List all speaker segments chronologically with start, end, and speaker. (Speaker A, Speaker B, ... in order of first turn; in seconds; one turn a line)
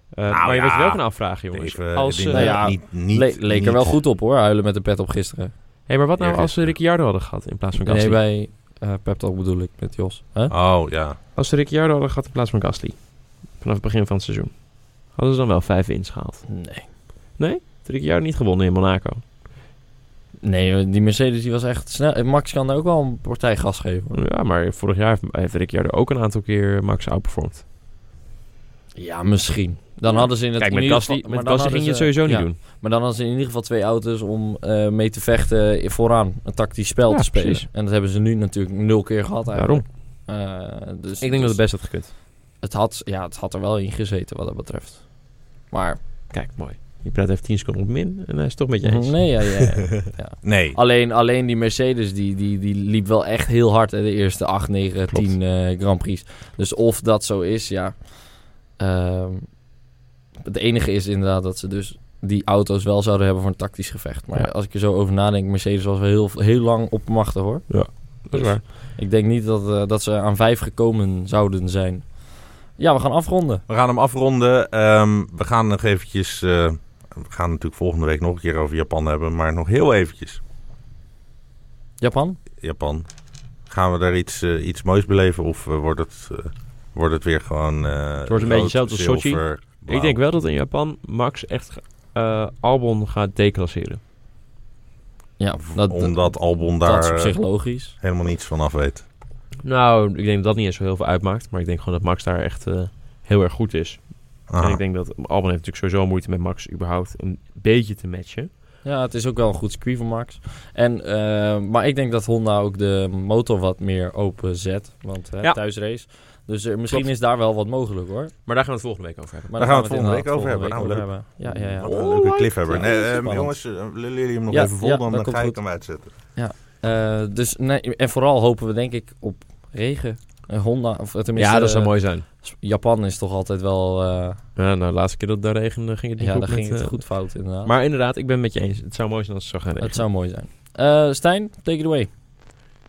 Speaker A: 0.1-2.7
Speaker B: 0.3-4.0
Speaker C: 2.3-5.5
Speaker A: 5.9-8.2
Speaker B: 6.2-6.7
Speaker C: 7.8-10.5
Speaker B: 10.5-11.2
Speaker A: 11.3-16.6
Speaker C: 16.5-16.9
Speaker A: 17.4-19.2
Speaker C: 20.4-24.2
Speaker A: 24.1-27.6
Speaker C: 28.9-41.8
Speaker A: 30.1-32.6
Speaker A: 37.1-37.6
Speaker A: 39.5-39.9
Speaker A: 41.2-42.1
Speaker C: 42.6-46.0
Speaker A: 46.3-49.8
Speaker C: 48.8-59.6
Speaker B: 50.4-50.8
Speaker C: 60.4-73.6
Speaker A: 67.7-68.6
Speaker B: 73.7-80.4
Speaker C: 82.0-82.4
Speaker B: 82.6-83.1
Speaker B: 83.7-90.2
Speaker A: 88.3-94.0
Speaker C: 95.4-98.0
Speaker B: 95.7-99.0
Speaker A: 99.6-108.5
Speaker B: 104.5-104.8
Speaker C: 108.8-118.3
Speaker A: 118.5-119.5
Speaker C: 119.5-122.0
Speaker B: 119.6-126.1
Speaker A: 121.8-122.9
Speaker C: 122.6-123.6
Speaker C: 124.5-134.4
Speaker A: 131.3-132.2
Speaker A: 134.6-140.1
Speaker C: 136.2-137.7
Speaker C: 139.8-142.1